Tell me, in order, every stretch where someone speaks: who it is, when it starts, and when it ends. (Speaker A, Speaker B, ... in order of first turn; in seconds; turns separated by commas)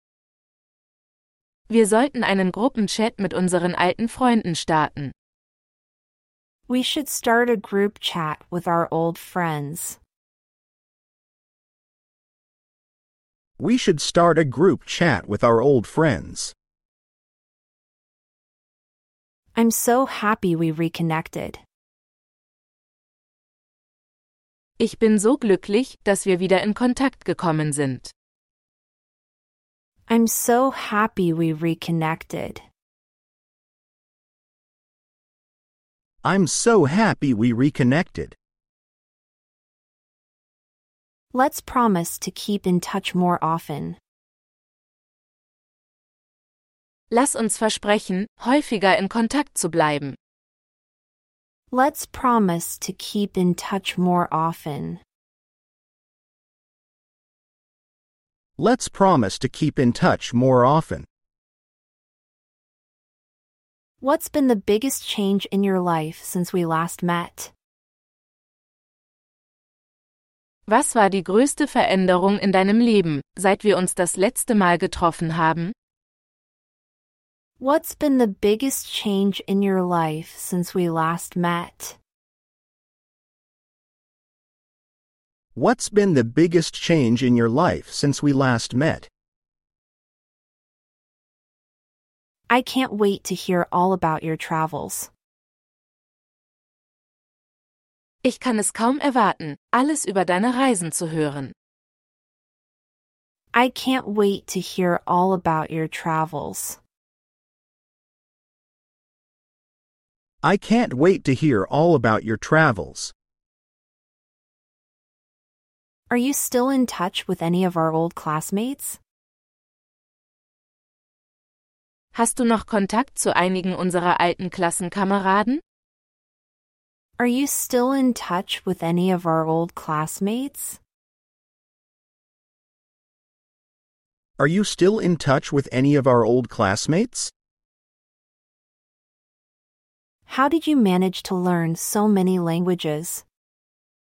Speaker A: 1.7-5.1, Speaker B: 6.7-10.0, Speaker C: 13.6-16.5, Speaker B: 19.6-21.6, Speaker A: 24.8-28.1, Speaker B: 30.1-32.6, Speaker C: 36.2-38.4, Speaker B: 41.3-44.0, Speaker A: 47.1-50.2, Speaker B: 51.7-55.0, Speaker C: 58.6-61.1, Speaker B: 64.0-67.5, Speaker A: 70.7-75.7, Speaker B: 77.6-82.0, Speaker C: 85.5-89.1, Speaker B: 92.5-95.1, Speaker A: 98.2-101.5, Speaker B: 103.5-106.8, Speaker C: 110.4-113.1, Speaker B: 116.1-119.0, Speaker A: 122.1-125.6, Speaker B: 127.2-130.8, Speaker C: 134.4-137.3, Speaker B: 140.3-143.2